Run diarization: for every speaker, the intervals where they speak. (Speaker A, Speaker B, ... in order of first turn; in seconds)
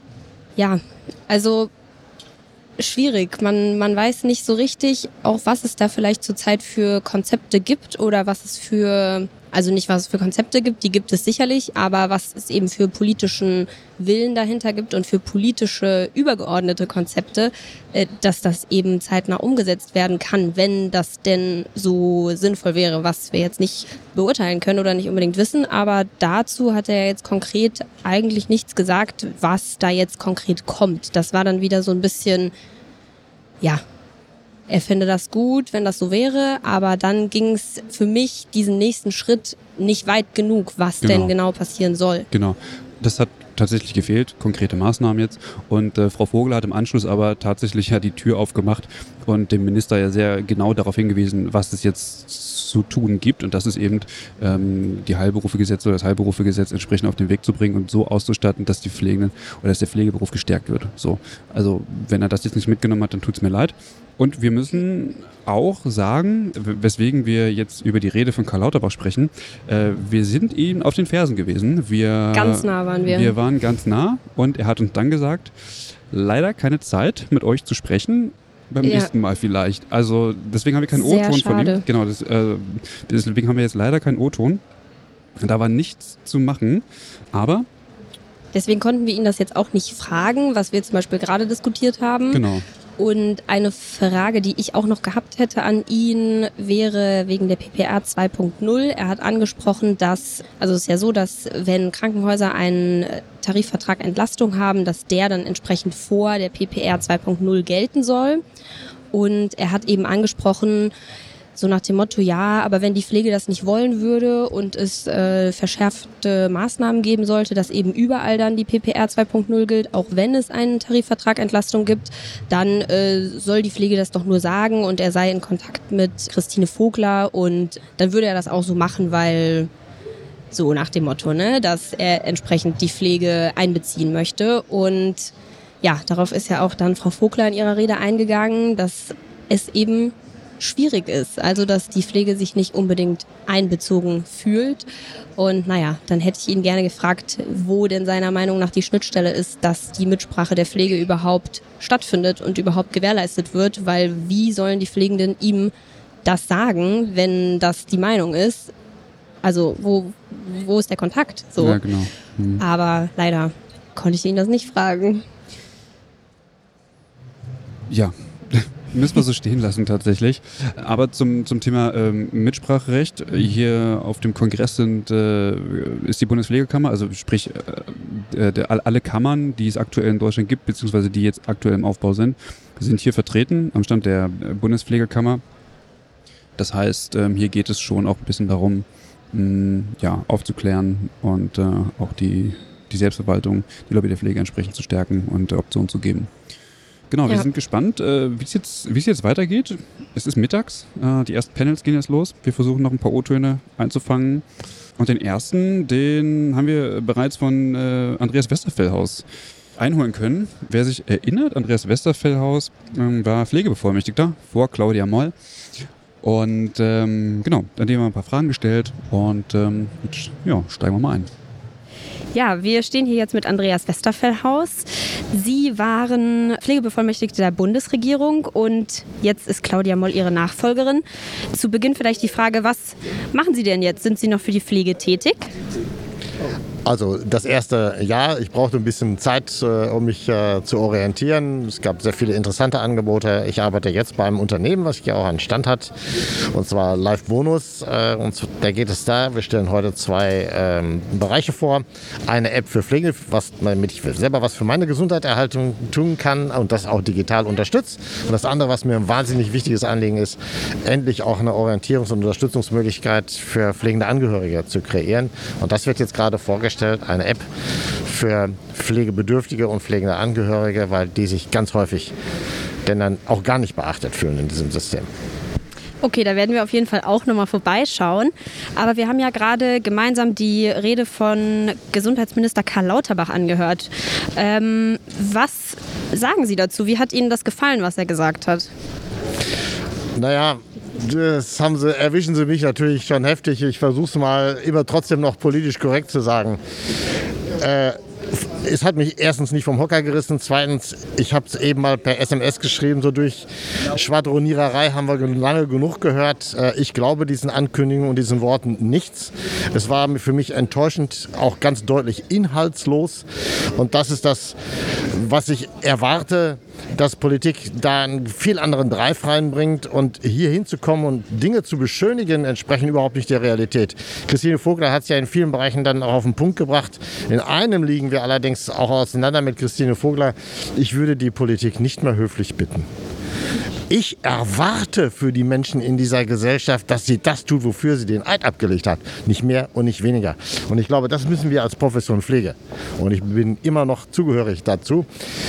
Speaker A: 0.6-1.7, 2.8-32.5, 34.7-42.3, 72.3-73.3, 78.8-79.1, 80.9-81.8, 88.5-92.4, 93.0-108.4, 109.1-110.9, 111.5-129.7, 130.5-155.7, 156.2-158.7, 159.4-161.8, 162.6-165.2, 222.3-235.5, 276.0-288.7
Speaker B: 41.0-41.3, 42.3-75.5, 76.1-84.6, 85.4-87.7, 92.3-92.7, 161.6-162.6, 167.9-185.4, 186.6-196.3, 197.1-204.4, 205.0-209.3, 209.8-215.3, 216.2-221.3
Speaker C: 236.8-245.9, 246.5-267.5, 268.0-272.1, 272.9-275.1, 290.2-296.6, 297.6-314.6, 315.1-332.9, 333.9-345.1